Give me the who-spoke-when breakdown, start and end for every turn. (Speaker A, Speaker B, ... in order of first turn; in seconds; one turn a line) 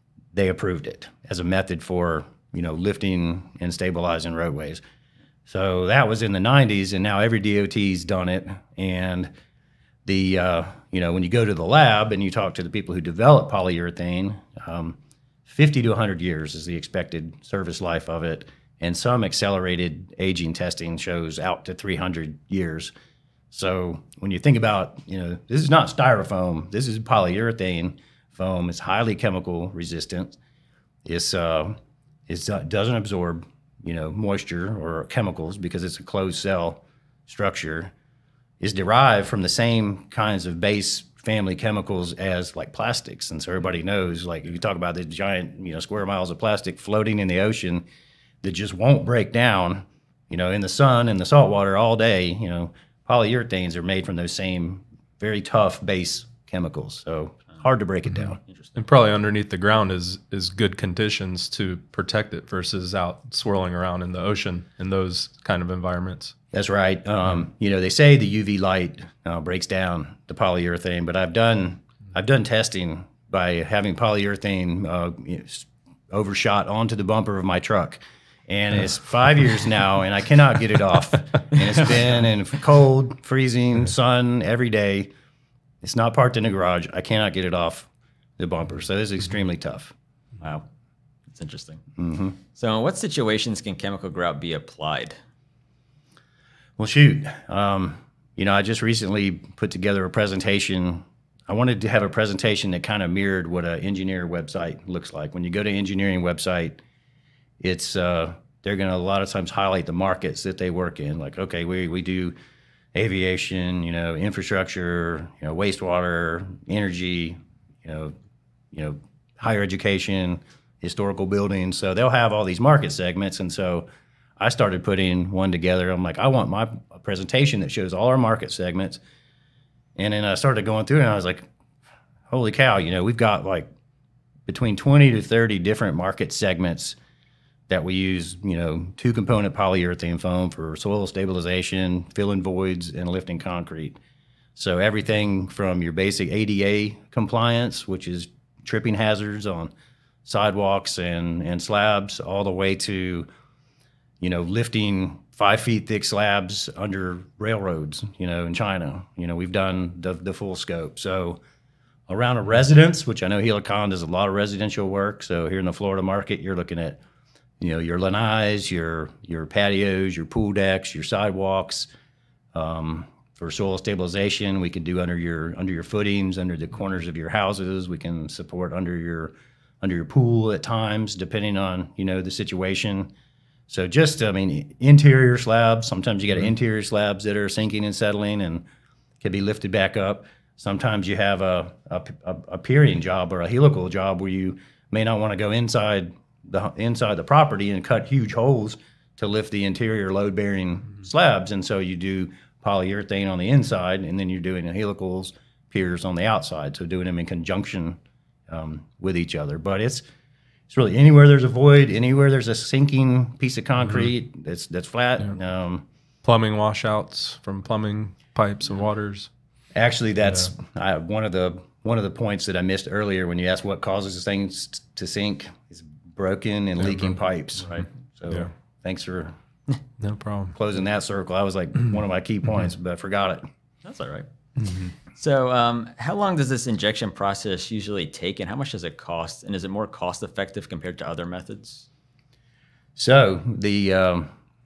Speaker A: 0.3-4.8
Speaker A: 5.5-9.3
Speaker A: 10.1-22.9
Speaker A: 23.5-30.4
Speaker A: 31.0-31.8
Speaker A: 32.3-37.9
Speaker A: 38.6-47.8
Speaker A: 48.4-58.4
Speaker B: 58.5-58.8
Speaker C: 58.8-66.3
Speaker A: 66.5-85.1
Speaker A: 85.8-89.9
Speaker B: 90.4-90.6
Speaker B: 91.3-91.8
Speaker A: 92.0-92.4
Speaker B: 92.5-95.2
Speaker A: 96.8-106.8
Speaker A: 107.6-112.3
Speaker A: 112.9-118.1
Speaker A: 118.7-123.9
Speaker A: 124.4-129.0
Speaker A: 129.9-131.5
Speaker A: 132.3-133.7
Speaker A: 134.5-137.0
Speaker A: 137.7-144.0
Speaker A: 144.5-149.7
Speaker A: 150.2-153.3
Speaker A: 154.2-161.4
Speaker A: 162.1-167.0
Speaker A: 167.6-171.9
Speaker A: 172.5-183.1
Speaker A: 183.7-188.6
Speaker A: 189.2-208.0
Speaker A: 208.5-210.0
Speaker A: 210.7-215.8
Speaker C: 216.2-219.3
Speaker A: 219.8-229.3
Speaker C: 230.0-230.5
Speaker A: 230.5-233.4
Speaker B: 233.8-234.2
Speaker B: 235.1-241.9
Speaker A: 242.9-244.3